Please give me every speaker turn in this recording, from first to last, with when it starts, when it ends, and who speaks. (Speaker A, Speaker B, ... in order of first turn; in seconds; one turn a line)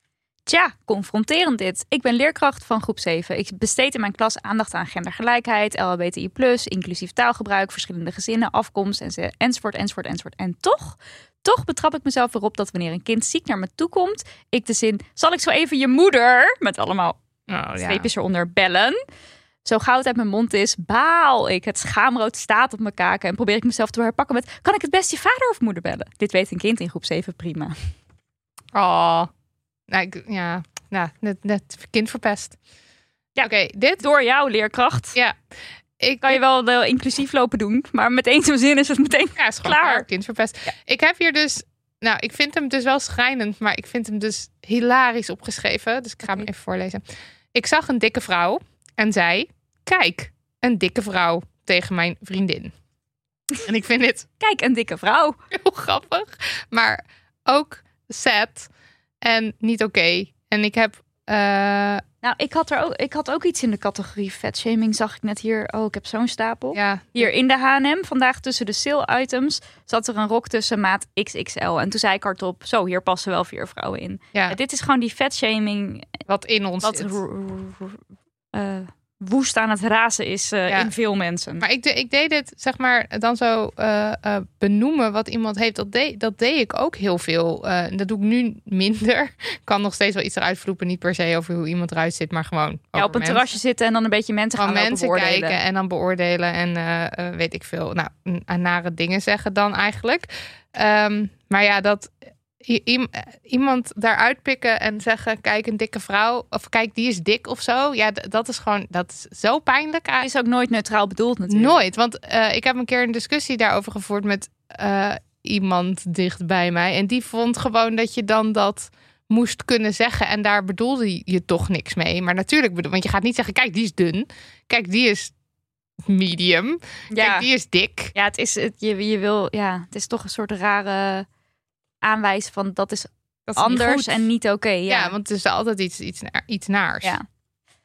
Speaker A: 0.5-17.2
Speaker B: 17.5-18.1
Speaker A: 17.8-19.0
Speaker A: 19.6-27.8
Speaker B: 28.7-29.3
Speaker B: 29.9-32.6
Speaker A: 33.4-35.2
Speaker B: 33.4-34.0
Speaker B: 35.1-35.4
Speaker B: 36.0-36.4
Speaker A: 36.2-40.0
Speaker B: 39.4-47.0
Speaker B: 47.5-52.7
Speaker B: 53.6-54.3
Speaker A: 54.4-55.4
Speaker B: 55.5-58.7
Speaker B: 59.2-62.0
Speaker A: 62.2-76.2
Speaker B: 66.7-67.3
Speaker B: 76.3-77.2
Speaker A: 76.8-78.0
Speaker A: 78.5-81.7
Speaker B: 81.6-93.5
Speaker A: 93.0-95.6
Speaker B: 94.6-110.3
Speaker A: 110.2-111.8
Speaker B: 111.5-125.3
Speaker B: 126.0-128.1
Speaker A: 127.1-127.5
Speaker A: 128.1-131.3
Speaker A: 132.0-135.2
Speaker B: 133.5-134.3
Speaker B: 134.9-137.2